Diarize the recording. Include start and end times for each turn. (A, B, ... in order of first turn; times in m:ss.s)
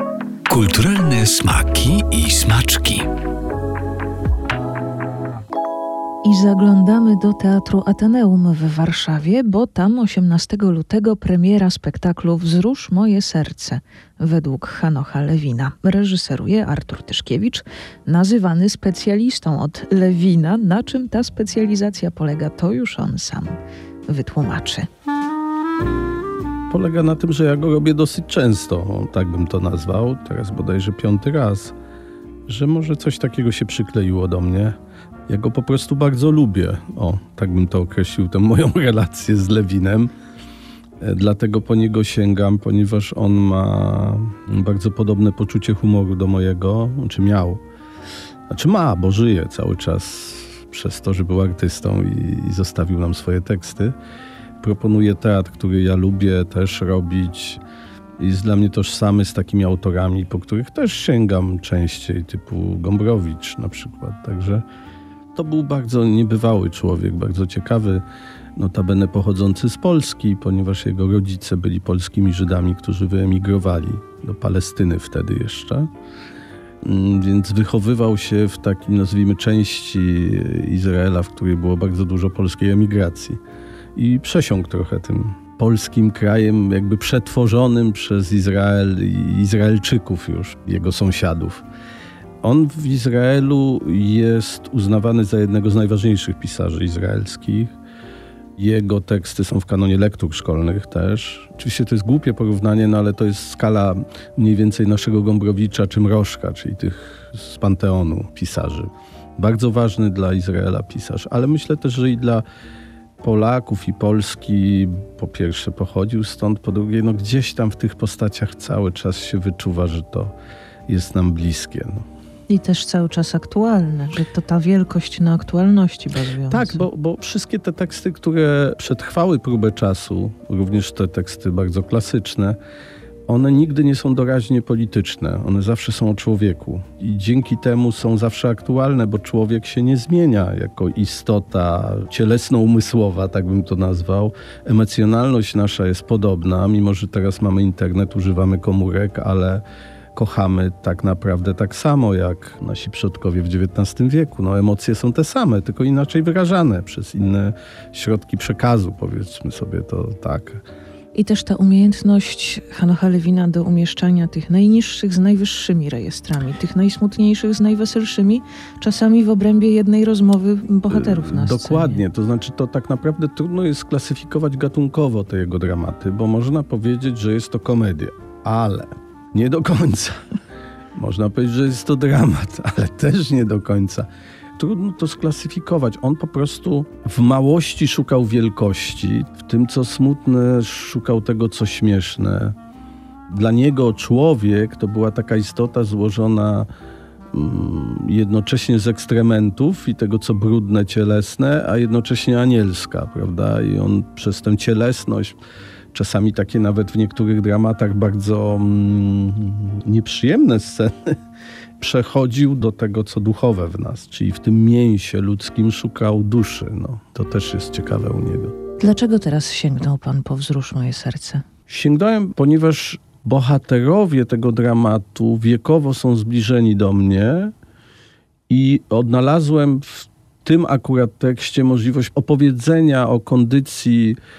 0:00.5-0:03.1 A
0:06.2-0:23.6 B
0:24.1-0:24.9 B
0:26.7-0:31.8 C
0:32.5-0:34.8 C
0:35.3-0:40.1 C
0:41.0-0:47.6 C
0:48.5-0:54.0 C
0:54.6-0:57.6 C
0:58.2-1:04.6 C
1:05.4-1:08.0 C
1:08.6-1:15.9 C
1:16.8-1:23.4 C
1:24.0-1:31.6 C
1:32.4-1:37.7 C
1:38.6-1:52.4 C
1:53.2-2:00.3 C
2:00.9-2:02.1 C
2:02.5-2:06.9 B
2:06.5-2:12.6 C
2:13.3-2:29.6 C
2:30.1-2:40.6 C
2:41.1-2:52.0 B
2:50.9-3:00.2 C
3:01.0-3:12.6 C
3:13.3-3:16.7 C
3:17.3-3:25.4 C
3:25.9-3:31.2 C
3:31.8-3:38.6 C
3:38.8-3:41.4 B
3:41.7-3:47.5 C
3:48.5-3:54.2 C